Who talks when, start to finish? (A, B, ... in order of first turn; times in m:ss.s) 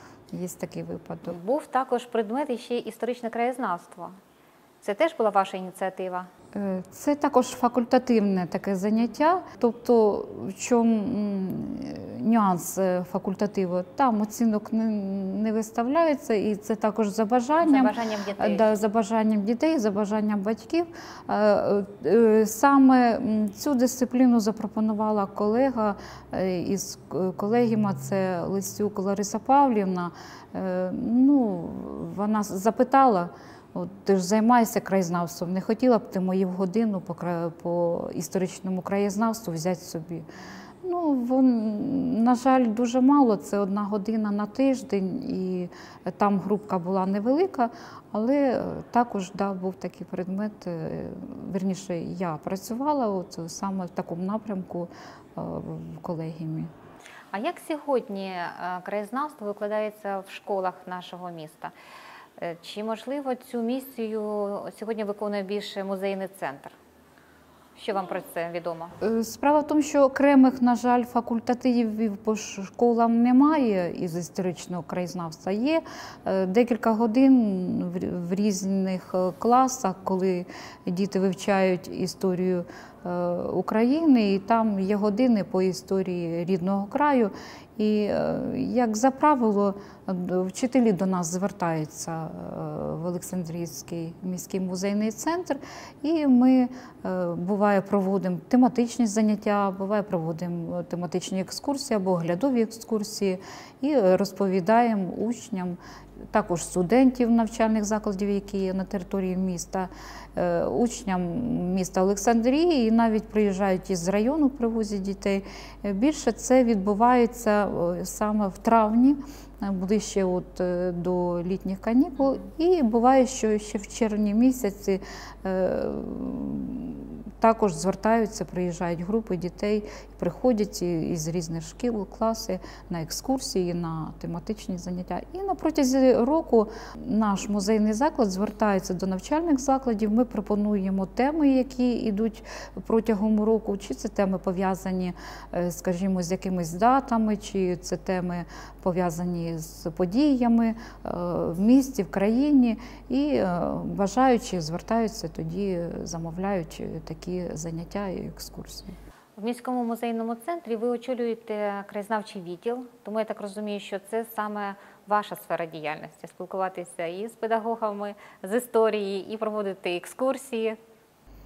0:00.3-0:01.4 A
0:01.2-0:04.2 B
0:04.8-0:06.3 B
0:06.5-0:40.3 A
0:17.6-0:18.7 B
0:40.8-0:56.7 A
0:57.3-1:01.7 B
1:02.4-1:06.8 B
1:07.8-1:08.9 B
1:09.0-1:45.8 A
1:46.3-2:39.0 A
2:39.4-2:50.8 B